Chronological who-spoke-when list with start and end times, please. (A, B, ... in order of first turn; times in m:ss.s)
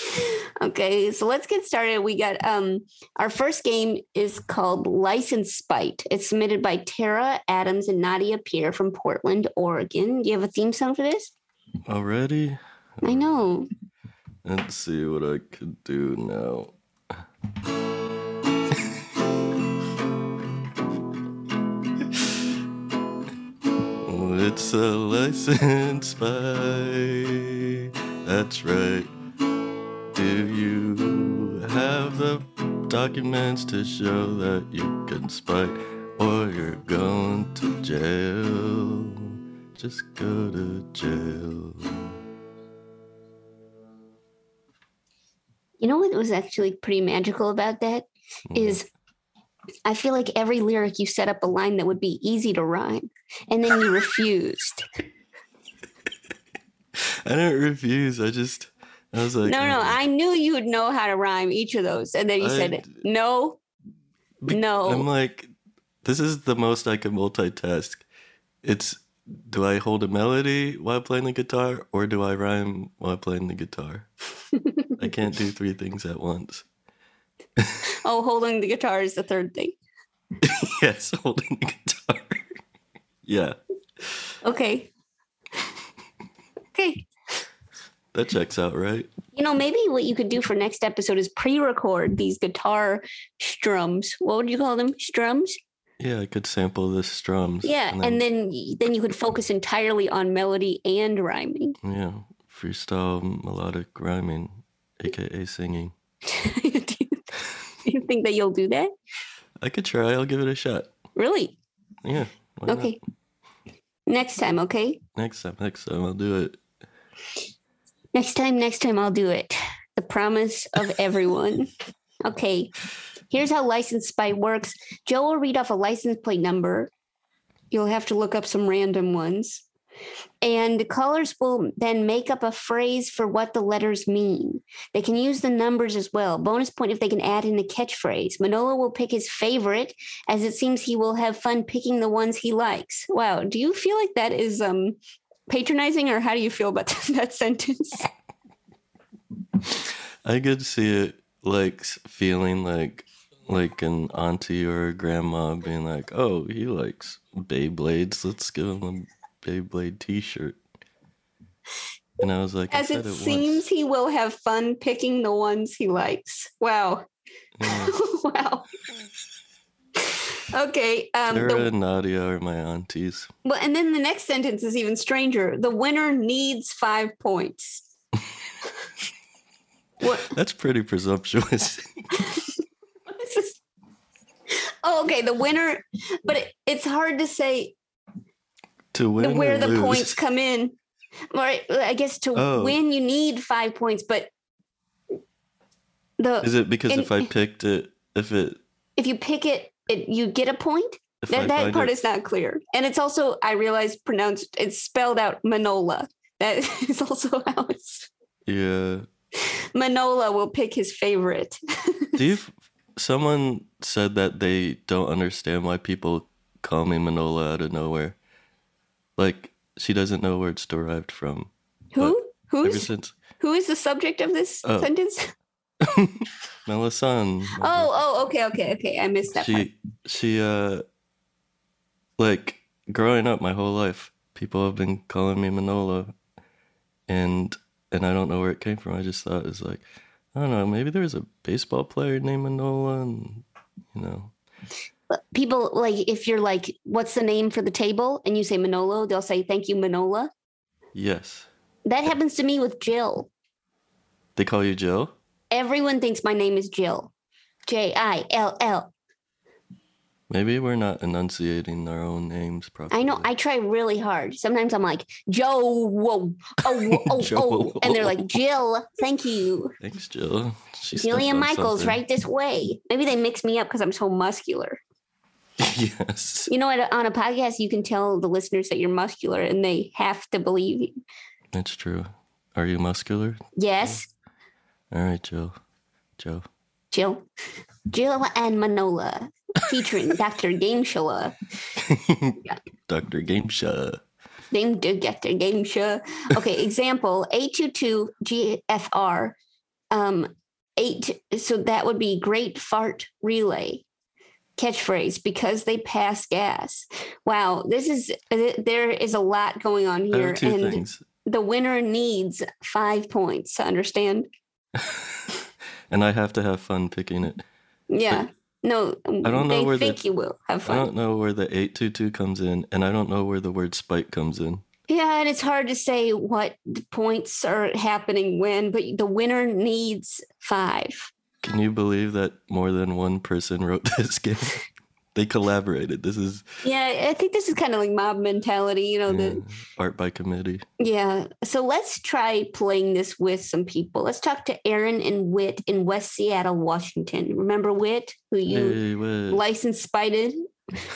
0:00.1-0:11.3 A
0:11.9-0:13.4 B
0:13.0-0:13.7 A
0:14.4-0:16.7 B
0:24.0-0:29.1 B
0:30.1-0:42.2 B
0:45.8-0:48.8 A
0:48.5-0:48.8 B
0:49.8-0:54.8 A
0:57.0-1:00.0 B
0:59.4-1:03.6 A
1:02.4-1:02.9 B
1:04.4-1:05.5 B
1:04.5-1:05.1 A
1:06.0-1:08.0 B
1:08.6-1:14.1 B
1:14.6-1:14.9 A
1:15.0-1:16.6 B
1:18.0-1:19.7 A
1:20.4-1:22.4 B
1:23.2-1:23.6 B
1:24.4-1:24.9 A
1:26.7-1:27.0 A
1:28.1-1:29.1 B
1:29.3-1:35.5 A
1:36.0-1:38.2 B
1:37.6-1:41.8 A
1:41.8-1:45.9 B
1:46.3-1:47.2 A
1:47.8-1:48.9 A
1:49.6-1:50.9 B
1:51.1-1:51.6 A
1:52.0-1:53.0 B
1:52.7-1:53.0 A
1:54.1-1:55.0 A
1:55.2-1:56.6 B
1:58.1-2:01.7 A
2:02.2-2:02.7 A
2:03.3-2:06.9 A
2:07.7-2:09.6 A
2:10.4-2:25.0 A
2:25.5-2:28.1 A
2:30.2-2:40.6 B
2:42.2-2:43.6 B
2:42.7-2:47.1 A
2:47.6-2:47.9 B
2:47.6-2:48.6 A
2:50.0-2:51.7 A
2:51.3-2:53.3 B
2:53.4-2:57.8 A
3:00.0-3:00.3 A
3:00.2-3:01.9 B
3:03.1-3:03.6 A
3:04.5-3:07.7 A
3:08.9-3:10.2 B
3:09.2-3:10.7 A
3:11.3-3:14.3 A
3:12.3-3:12.8 B
3:16.2-3:17.3 A
3:16.4-3:18.6 B
3:19.0-3:28.1 A
3:21.2-3:21.9 B
3:28.5-3:29.1 B
3:29.4-3:32.2 A
3:32.2-3:38.2 B
3:39.2-3:43.1 B
3:41.9-3:42.9 A
3:43.4-3:45.3 A
3:45.8-3:47.9 B
3:47.6-3:49.7 A
3:49.4-3:50.8 B
3:52.2-3:56.1 B
3:57.1-4:04.3 B
4:05.1-4:10.3 A
4:10.9-4:11.5 B
4:11.8-4:13.3 A
4:14.4-4:15.1 B
4:15.5-4:17.1 A
4:17.7-4:18.9 A
4:20.3-4:23.3 B
4:22.9-4:29.7 A
4:26.7-4:28.2 B
4:29.8-4:32.0 B
4:31.0-4:34.8 A
4:35.6-4:36.5 B
4:36.5-4:40.9 A
4:41.5-4:44.0 B
4:43.6-4:44.1 A
4:44.9-4:45.5 B
4:46.2-4:46.4 B
4:46.9-4:47.2 A
4:47.9-4:51.4 A
4:51.8-4:54.0 B
4:54.5-4:59.4 A
4:59.9-5:03.8 A
5:04.6-5:14.3 A
5:10.1-5:11.0 B
5:14.8-5:15.2 B
5:15.9-5:17.4 B
5:17.9-5:20.9 A
5:19.2-5:20.0 B
5:20.6-5:24.6 B
5:24.9-5:31.1 A
5:31.4-5:34.6 B
5:35.1-5:36.5 B
5:36.6-5:39.4 A
5:39.1-5:40.6 B
5:40.8-5:50.3 A
5:48.5-5:49.4 B